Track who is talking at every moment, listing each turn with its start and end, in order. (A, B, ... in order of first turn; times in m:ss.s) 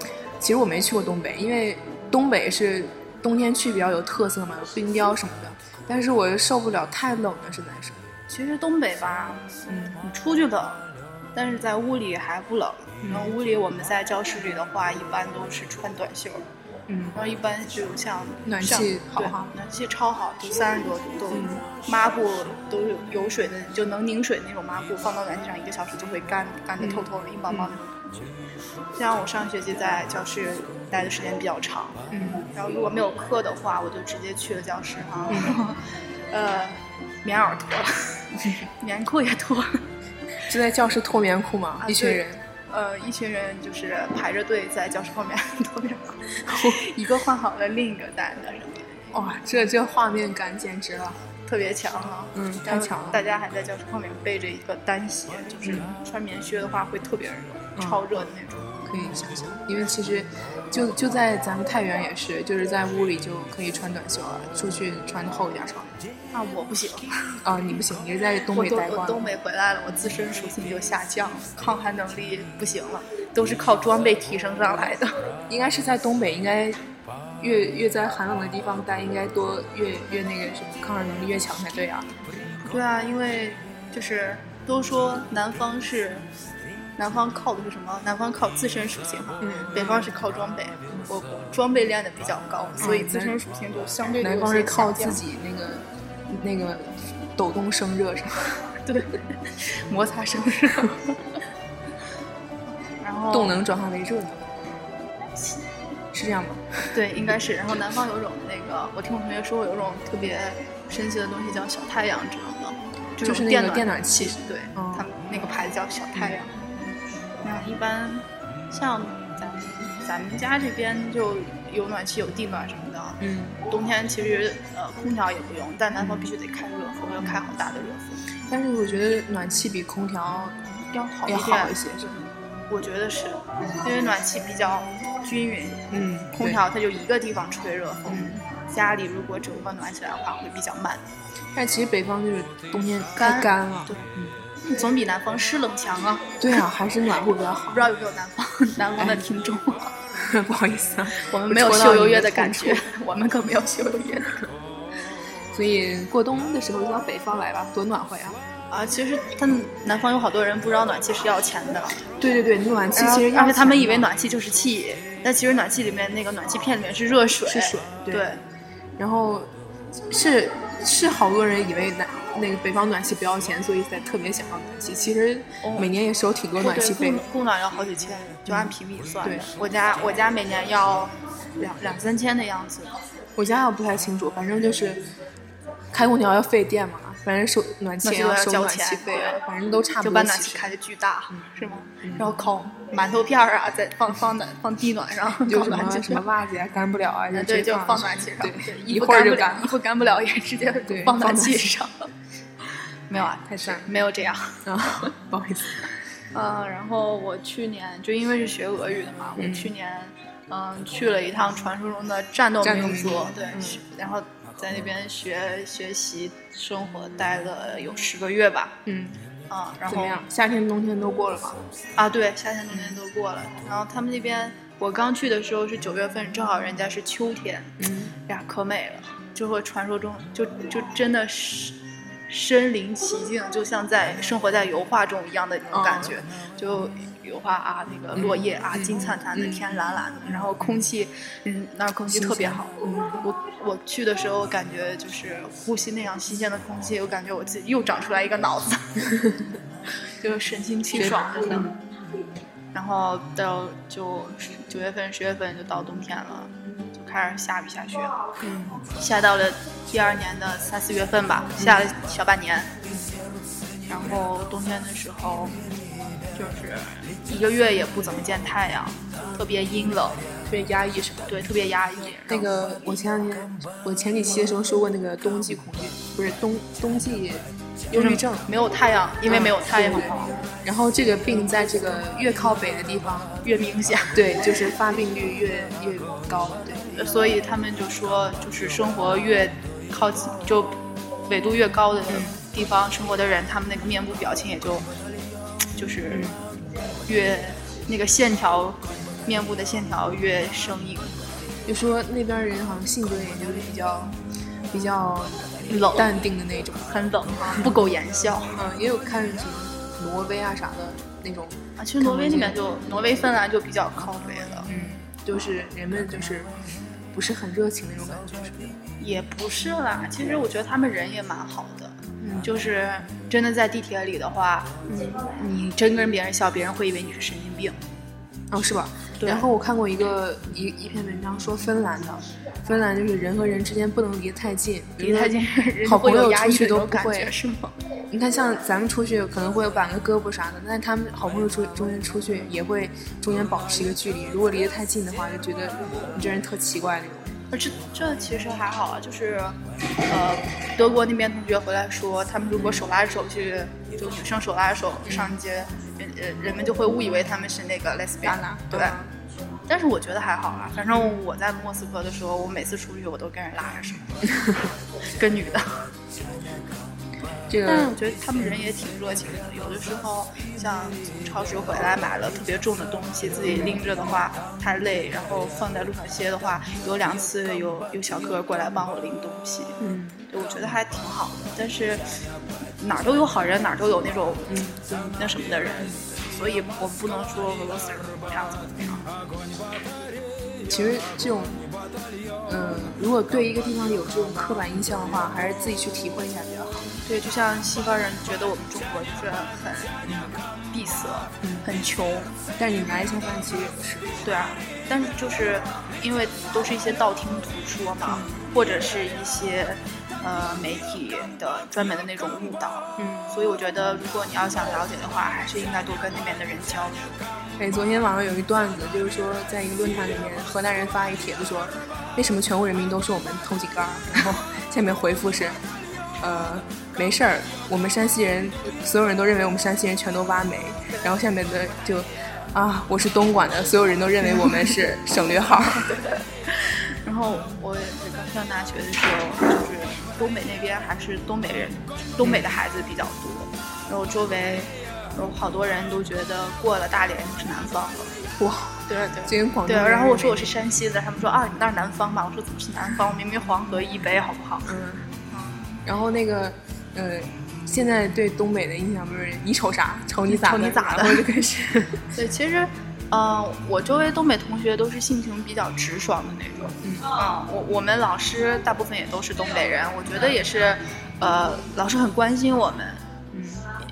0:00.4-0:08.0 A
0:08.3-0:16.4 B
0:09.7-0:10.0 A
0:13.0-0:13.3 A
0:16.9-0:17.2 A
0:17.2-0:28.3 B
0:18.4-0:19.5 A
0:21.3-0:21.6 A
0:26.8-0:27.8 A
0:29.0-0:39.8 B
0:32.1-0:32.5 A
0:35.3-0:35.6 A
0:40.5-0:42.4 A
0:41.8-0:48.9 B
0:46.5-0:46.8 A
0:49.1-0:51.2 A
0:51.5-0:58.8 B
0:52.3-0:53.2 A
0:55.6-0:56.0 A
0:57.8-0:58.1 A
0:58.8-1:06.0 A
1:06.3-1:07.1 B
1:07.4-1:09.3 A
1:08.5-1:15.1 B
1:15.5-1:16.8 A
1:17.4-1:22.1 A
1:22.6-1:26.2 B
1:27.0-1:35.2 B
1:29.4-1:30.1 A
1:32.8-1:33.4 A
1:34.2-1:38.6 A
1:38.8-1:41.2 B
1:43.0-1:43.6 B
1:43.3-1:44.5 A
1:46.1-1:46.9 A
1:46.9-1:56.7 B
1:53.2-1:55.1 A
1:57.4-2:08.2 B
2:03.2-2:03.6 A
2:06.0-2:06.3 A
2:08.5-2:12.2 A
2:11.2-2:11.8 B
2:12.7-2:21.0 B
2:15.9-2:16.6 A
2:18.1-2:18.4 A
2:21.5-2:24.4 A
2:23.2-2:24.1 B
2:24.6-2:26.4 B
2:26.4-2:27.9 A
2:27.7-2:30.0 B
2:29.0-2:29.2 A
2:30.1-2:32.9 A
2:31.2-2:34.4 B
2:35.5-2:38.4 A
2:38.7-2:42.0 B
2:42.2-2:44.1 A
2:43.0-2:48.4 B
2:47.4-2:48.3 A
2:49.0-2:49.5 A
2:50.1-2:57.3 A
2:55.6-2:55.9 B
2:56.6-3:03.0 B
2:58.5-2:59.5 A
3:03.4-3:05.1 A
3:05.9-3:10.7 A
3:08.0-3:09.4 B
3:10.0-3:16.2 B
3:11.3-3:12.4 A
3:15.4-3:19.8 A
3:17.3-3:22.1 B
3:20.9-3:21.7 A
3:23.1-3:25.1 B
3:23.4-3:23.9 A
3:24.6-3:25.9 A
3:26.3-3:38.8 B
3:29.4-3:29.7 A
3:32.6-3:33.8 A
3:38.9-3:39.2 A
3:39.5-3:40.2 B
3:39.9-3:41.6 A
3:42.0-3:51.8 B
3:47.8-3:48.1 A
3:52.3-4:09.0 B
3:55.7-3:56.1 A
3:58.2-3:59.7 A
4:02.1-4:03.2 A
4:10.2-4:11.7 B
4:10.9-4:11.8 A
4:12.7-4:18.3 B
4:18.4-4:18.8 A
4:18.9-4:22.7 B
4:21.6-4:21.9 A
4:22.9-4:23.1 A
4:23.9-4:25.6 B
4:26.3-4:30.2 B
4:29.2-4:31.4 A
4:31.3-4:32.5 B
4:32.3-4:38.5 A
4:37.9-4:40.4 B
4:39.3-4:43.4 A
4:43.4-4:44.2 B
4:44.1-4:47.0 A
4:47.0-4:54.9 B
4:52.1-4:52.4 A
4:55.8-4:56.4 B
4:56.1-4:56.4 A
4:57.1-5:01.3 B
5:01.7-5:04.2 A
5:04.7-5:06.9 A
5:05.7-5:06.1 B
5:06.9-5:08.6 B
5:07.5-5:07.8 A
5:08.5-5:12.6 A
5:11.8-5:14.7 B
5:14.7-5:16.5 A
5:17.1-5:18.8 A
5:19.0-5:27.8 B
5:22.2-5:22.5 A
5:28.5-5:37.3 A
5:29.2-5:29.5 B
5:35.0-5:37.7 B
5:38.1-5:47.4 A
5:47.5-5:59.0 B
5:52.6-5:52.8 A
5:55.0-5:55.4 A
5:58.3-5:59.1 A
5:59.7-6:04.4 B
6:00.9-6:01.2 A
6:05.1-6:05.8 B
6:07.5-6:08.0 A
6:07.6-6:19.8 B
6:13.5-6:13.8 A
6:19.8-6:20.3 A
6:20.3-6:22.0 B
6:22.8-6:24.5 B
6:24.5-6:25.2 A
6:25.2-6:29.1 B
6:30.6-6:31.7 A
6:32.5-6:36.9 A
6:37.0-6:40.0 B
6:40.0-6:40.3 A
6:40.7-6:42.4 B
6:42.6-6:44.2 A
6:44.2-6:57.2 B
6:48.1-6:48.4 A
6:53.0-6:53.4 A
6:57.6-7:05.6 A
7:06.2-7:16.0 A
7:15.8-7:28.1 B
7:22.2-7:22.6 A
7:28.4-7:30.6 A
7:28.9-7:34.7 B
7:34.7-7:35.1 A
7:35.3-7:35.8 B
7:35.8-7:42.1 A
7:40.3-7:41.2 B
7:42.2-7:53.0 B
7:46.8-7:47.1 A
7:53.3-7:53.6 A